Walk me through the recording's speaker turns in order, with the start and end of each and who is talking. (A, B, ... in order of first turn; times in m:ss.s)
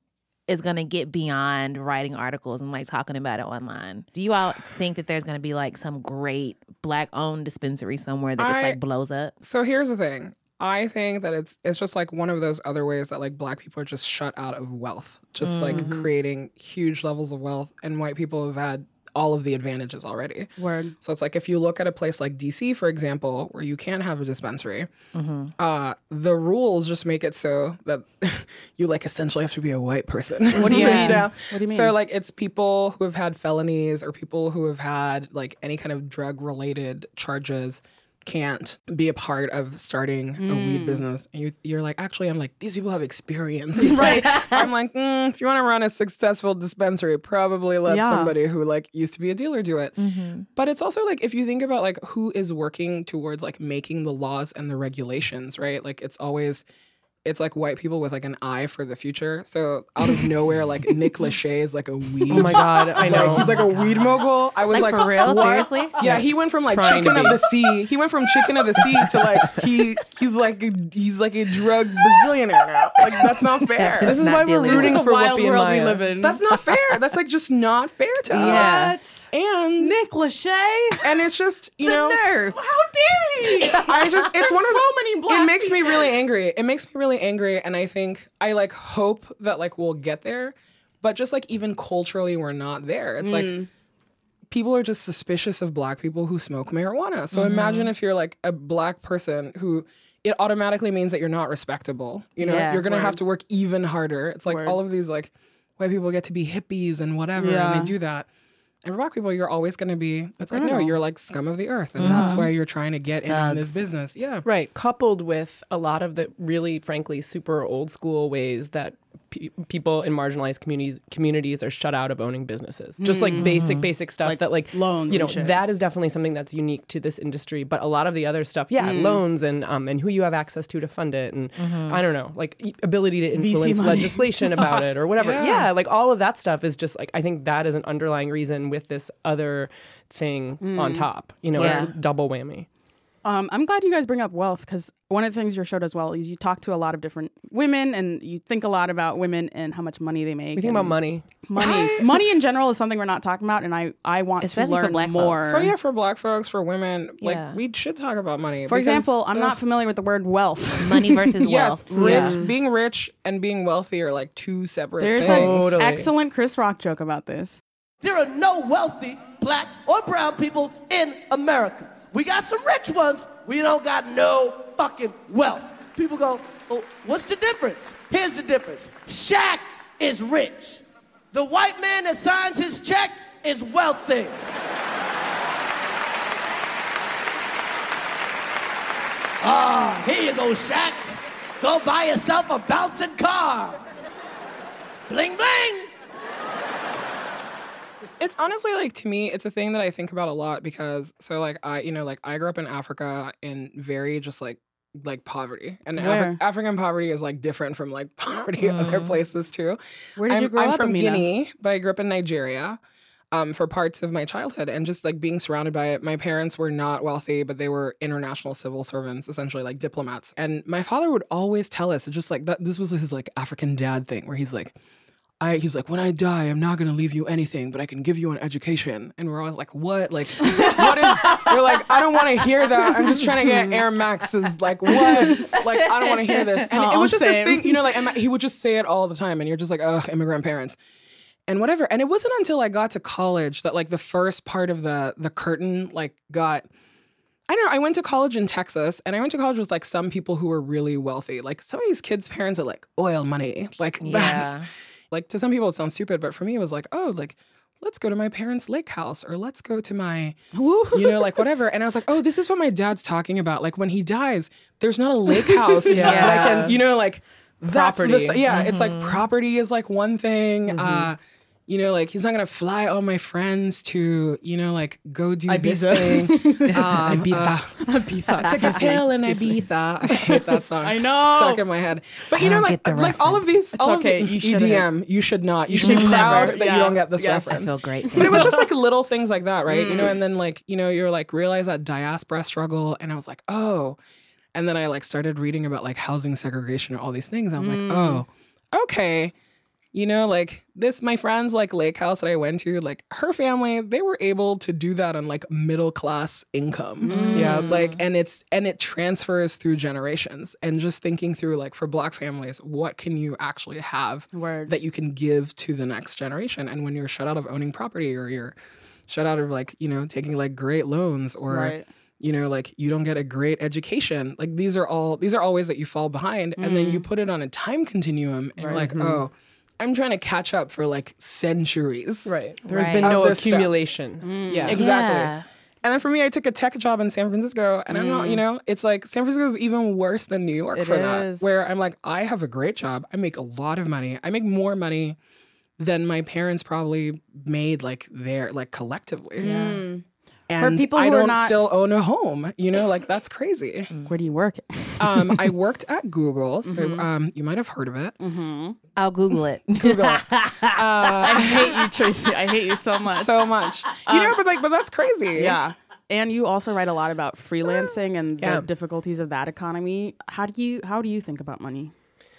0:00.5-0:09.3 A
0:08.4-0:08.8 B
0:09.4-0:24.9 B
0:15.4-0:16.0 A
0:15.7-0:16.0 C
0:20.6-0:20.9 D
0:25.1-0:25.5 A
0:25.6-0:50.0 B
0:30.5-0:31.9 D
0:30.6-0:31.3 A
0:40.4-0:41.0 D
0:43.8-0:44.6 D
0:44.0-0:44.6 A
0:47.8-0:48.3 D
0:50.0-0:50.5 A
0:50.5-0:56.6 B
0:57.2-1:14.2 B
1:02.3-1:03.6 C
1:03.0-1:06.0 A
1:06.0-1:07.4 C
1:13.8-1:15.0 A
1:14.0-1:16.0 C
1:14.6-1:16.4 D
1:16.2-1:19.9 B
1:18.3-1:19.0 A
1:18.3-1:21.2 D
1:21.0-1:22.2 B
1:21.8-1:26.1 D
1:23.7-1:33.6 B
1:33.2-1:33.7 D
1:34.5-1:48.3 B
1:37.3-1:37.9 A
1:42.4-1:43.2 D
1:44.4-1:44.8 D
1:47.4-1:47.9 D
1:48.8-1:54.4 B
1:50.4-1:50.9 D
1:52.0-1:52.5 A
1:52.0-1:52.5 D
1:53.2-1:53.8 A
1:54.4-2:22.7 C
2:03.0-2:03.7 D
2:03.4-2:03.9 A
2:04.2-2:05.6 D
2:08.8-2:09.2 D
2:11.6-2:12.0 A
2:13.3-2:14.8 D
2:15.2-2:15.7 B
2:20.6-2:21.9 D
2:21.5-2:21.9 A
2:23.2-2:35.7 D
2:30.5-2:31.2 C
2:31.6-2:32.2 B
2:34.4-2:35.4 A
2:35.4-2:39.5 B
2:37.2-2:37.6 A
2:38.7-2:41.4 D
2:40.8-2:42.4 A
2:41.4-2:45.8 B
2:41.9-2:42.5 C
2:45.0-2:47.6 D
2:45.2-2:46.1 C
2:48.0-3:04.4 E
3:09.4-3:13.8 E
3:15.1-3:15.9 E
3:18.2-3:32.8 B
3:26.0-3:26.4 D
3:28.6-3:29.2 A
3:30.2-3:31.3 D
3:33.3-3:44.7 B
3:45.4-4:00.8 B
3:50.4-3:51.5 D
3:55.0-3:55.6 D
3:55.0-3:55.6 A
3:56.5-3:58.0 D
4:01.5-4:06.7 B
4:07.5-4:20.4 B
4:14.0-4:14.7 A
4:20.5-4:21.5 D
4:20.9-4:37.8 B
4:25.4-4:26.8 D
4:25.8-4:26.8 C
4:25.9-4:26.7 A
4:27.6-4:28.4 C
4:28.5-4:29.2 A
4:30.7-4:31.1 C
4:35.5-4:39.1 D
4:37.1-4:39.6 C
4:38.4-4:54.0 B
4:40.0-4:41.6 D
4:42.4-4:43.5 A
4:43.7-4:44.9 D
4:45.7-4:48.7 D
4:45.8-4:46.5 A
4:47.5-4:48.6 A
4:49.7-4:50.2 D
4:54.5-4:59.3 B
4:57.6-4:58.2 D
4:59.9-5:18.6 B
5:07.0-5:07.7 D
5:07.1-5:08.0 A
5:07.3-5:07.8 C
5:14.3-5:14.7 D
5:19.1-5:32.3 B
5:21.5-5:21.8 D
5:26.6-5:27.0 A
5:28.6-5:29.2 C
5:32.2-5:34.8 C
5:32.7-5:33.2 A
5:33.0-5:33.8 B
5:34.2-5:34.8 D
5:34.6-5:45.2 B
5:34.7-5:35.4 A
5:37.9-5:38.4 A
5:40.7-5:41.5 D
5:45.8-5:49.5 B
5:49.4-5:50.0 D
5:49.4-5:49.8 A
5:50.5-5:53.9 B
5:50.6-5:51.7 D
5:54.1-5:55.5 D
5:55.0-5:58.2 B
5:56.6-5:57.1 D
5:58.2-5:58.8 D
5:59.0-6:01.5 A
5:59.8-6:01.7 B
6:01.2-6:03.5 D
6:03.0-6:05.6 B
6:04.0-6:04.4 D
6:05.3-6:11.9 D
6:08.4-6:08.7 C